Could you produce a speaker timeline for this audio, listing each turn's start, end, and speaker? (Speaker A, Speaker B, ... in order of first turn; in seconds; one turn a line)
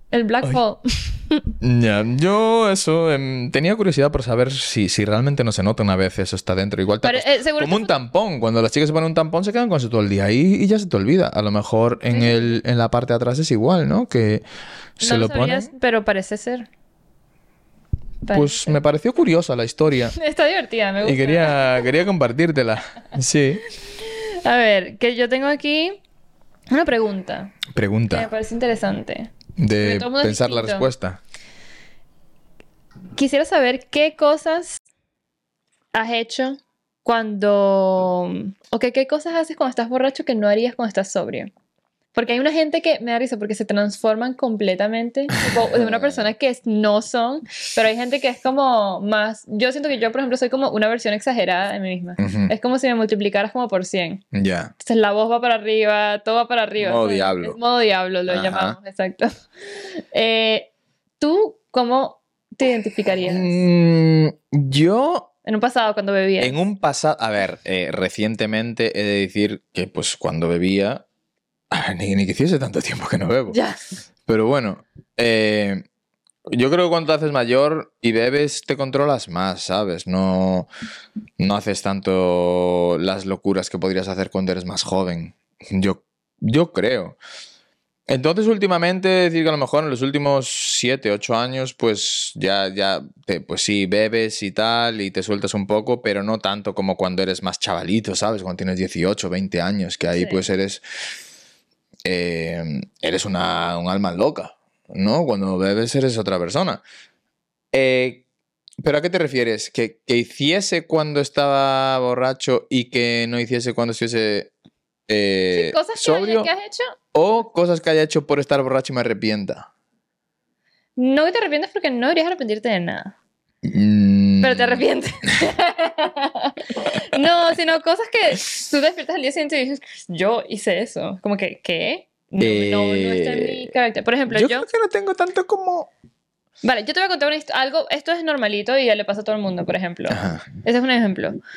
Speaker A: 0.1-1.5
Speaker B: 1.6-14.4
Speaker A: 7.0-7.9
Speaker A: 12.1-12.6
Speaker B: 15.0-15.7
Speaker A: 15.0-16.7
Speaker A: 18.2-18.8
Speaker B: 18.3-20.1
Speaker A: 20.1-21.9
Speaker B: 21.0-23.6
Speaker A: 24.0-26.0
Speaker A: 26.7-27.6
Speaker B: 27.7-28.3
Speaker A: 28.1-30.9
Speaker B: 29.6-31.2
Speaker A: 33.1-34.8
Speaker A: 35.9-41.5
Speaker A: 42.1-54.2
Speaker B: 45.5-46.3
Speaker B: 52.2-52.5
Speaker B: 54.3-54.7
Speaker A: 54.8-63.5
Speaker B: 56.8-57.6
Speaker B: 58.3-58.8
Speaker B: 63.2-65.3
Speaker A: 65.5-66.6
Speaker B: 66.4-71.0
Speaker B: 71.7-73.6
Speaker A: 73.5-73.8
Speaker B: 74.3-75.8
Speaker B: 76.5-80.7
Speaker B: 81.4-87.2
Speaker B: 88.1-100.8
Speaker A: 100.1-100.4
Speaker B: 102.0-106.8
Speaker B: 107.7-108.2
Speaker B: 108.8-114.5
Speaker B: 115.1-116.5
Speaker A: 115.5-116.9
Speaker B: 117.1-119.7
Speaker A: 121.0-123.1
Speaker B: 123.6-124.8
Speaker A: 124.4-134.7
Speaker B: 132.4-133.7
Speaker B: 134.3-135.9
Speaker A: 136.6-141.4
Speaker B: 140.1-140.5